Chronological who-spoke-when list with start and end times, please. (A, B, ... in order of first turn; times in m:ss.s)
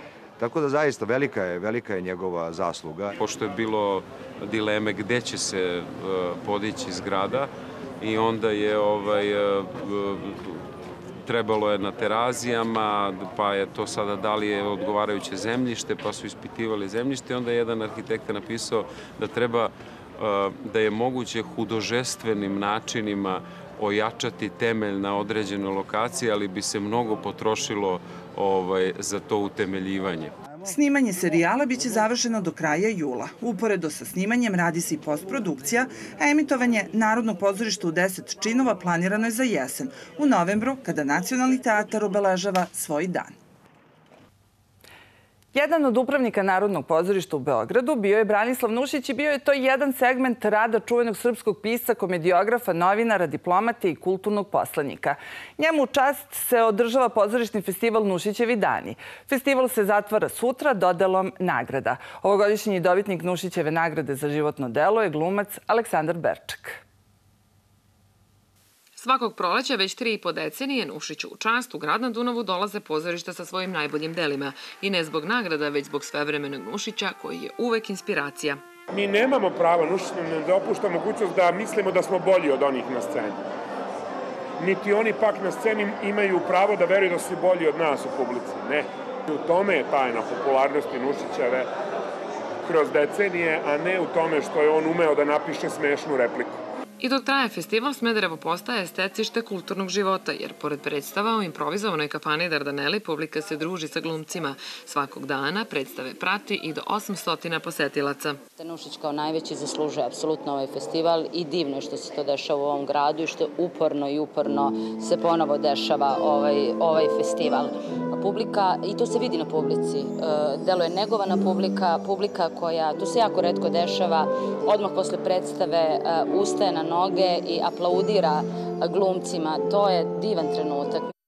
0:00.4-0:03.1 A
0:03.2-0:10.6 B
0:11.2-0:30.3 B
0:30.6-0:43.3 C
0:45.5-1:06.8 C
1:09.0-1:18.6 D
1:18.9-1:23.4 E
1:24.6-1:31.7 E
1:32.6-1:36.6 E
1:37.0-1:48.4 D
1:48.6-2:11.0 F